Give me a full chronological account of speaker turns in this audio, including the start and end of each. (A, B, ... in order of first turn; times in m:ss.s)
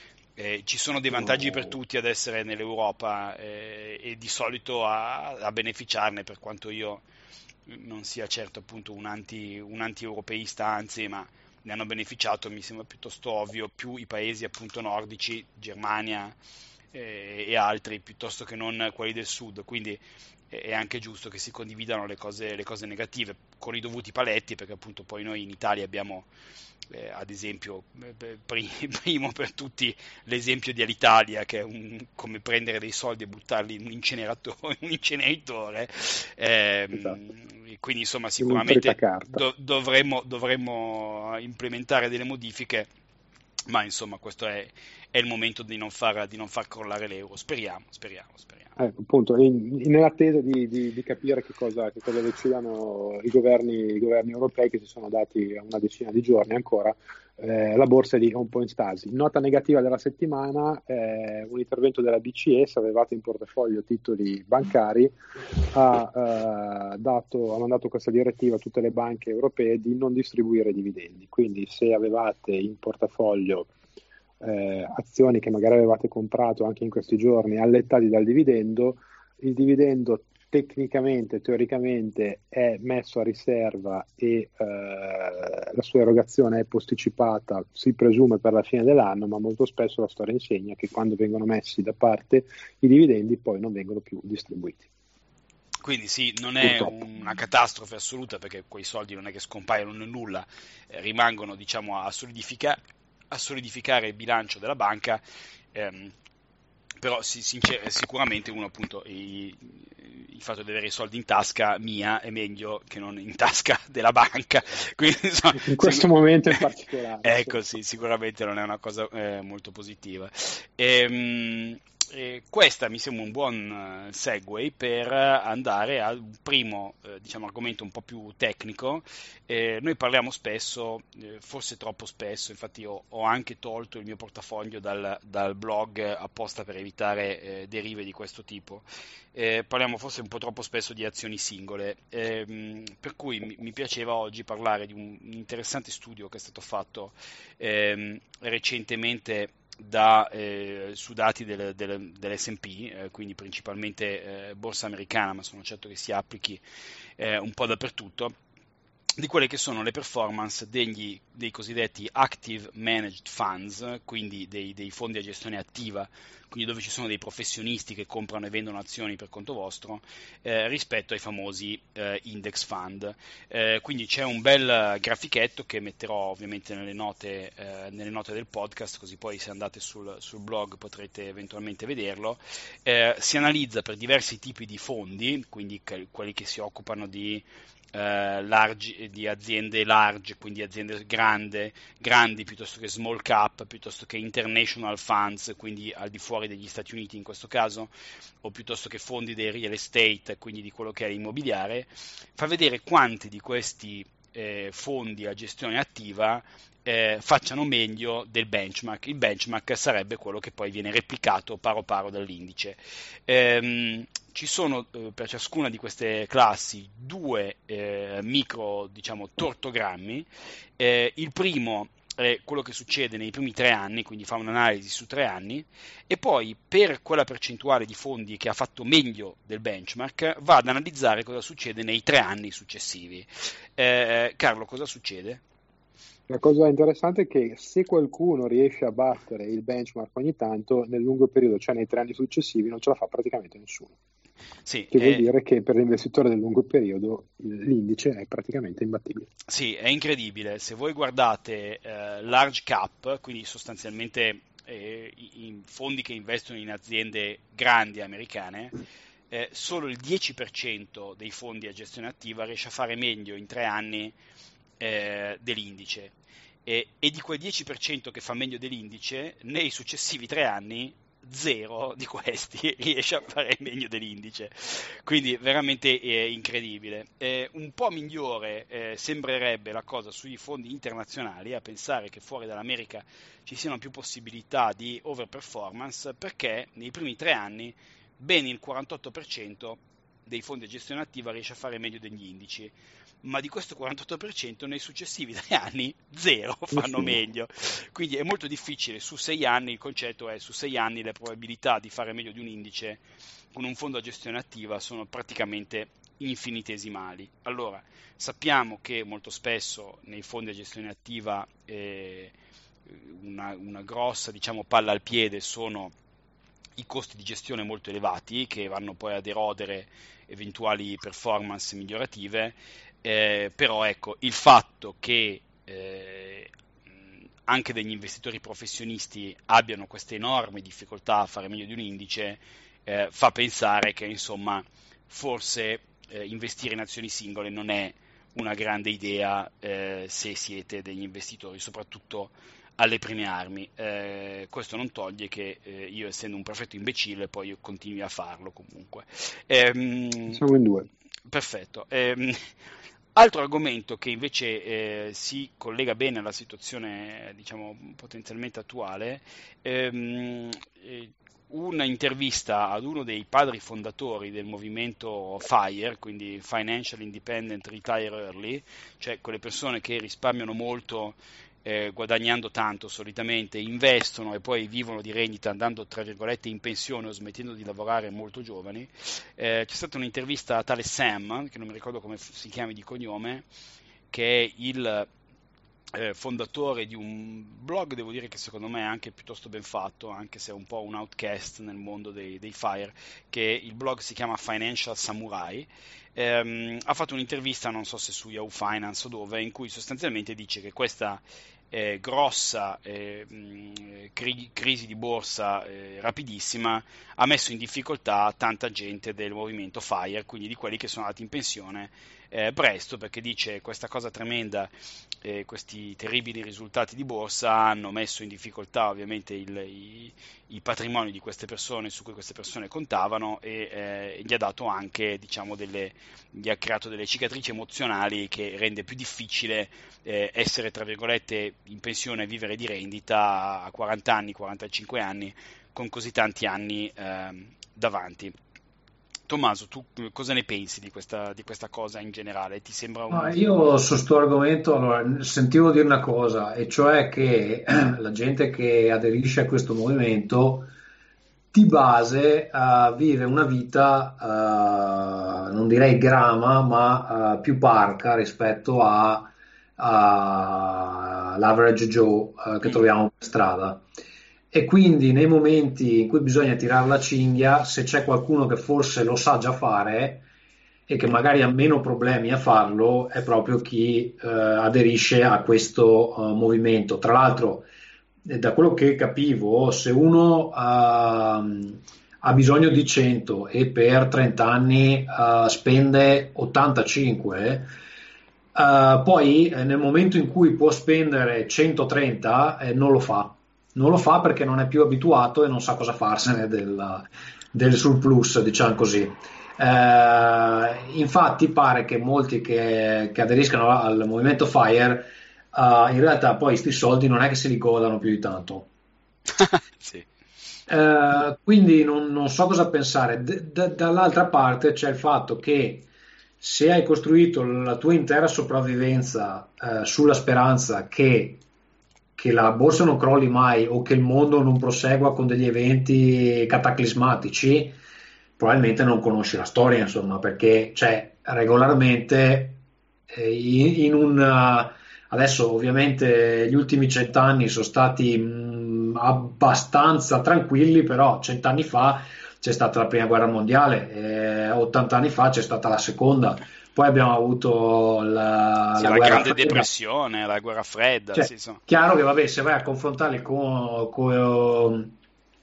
0:00.4-0:07.0 A
0:01.1-0:01.7 B
0:07.7-0:16.4 A
0:16.9-0:26.3 A
0:26.9-0:42.9 A
0:38.4-0:39.4 B
0:43.7-0:48.7 A
0:48.8-1:13.7 B
1:14.4-1:34.9 B
1:35.8-1:42.8 A
1:36.6-1:37.0 B
1:43.3-1:45.2 A
1:45.7-1:46.1 A
1:47.0-1:56.6 A
1:55.5-1:57.6 B
1:57.2-2:36.6 A
2:37.2-2:38.3 A
2:39.2-3:17.9 A
3:18.4-3:40.3 A
3:40.8-3:55.4 A
3:56.3-4:03.9 B
4:04.6-4:05.3 A
4:04.9-4:09.3 B
4:09.5-4:18.7 A
4:19.3-4:24.1 A
4:24.8-4:26.1 A
4:26.6-5:12.3 A
4:56.7-4:57.2 B
5:12.9-5:15.9 A
5:16.8-5:26.5 A
5:27.4-5:50.4 A
5:50.3-5:50.9 B
5:51.3-5:52.5 A
5:53.1-6:23.4 A
6:24.1-6:25.1 A
6:25.9-6:54.7 A
6:55.2-7:18.3 A
7:19.3-7:23.7 A
7:23.1-7:30.7 C
7:31.5-7:43.8 C
7:44.5-7:50.2 C
7:50.9-7:57.7 C
7:58.2-8:07.7 C
8:08.5-8:28.7 C
8:29.3-8:30.1 A
8:30.7-8:35.9 C
8:36.4-8:41.4 C
8:42.2-8:47.8 C
8:48.4-9:09.7 C
9:08.8-9:11.6 A
9:11.1-9:14.9 C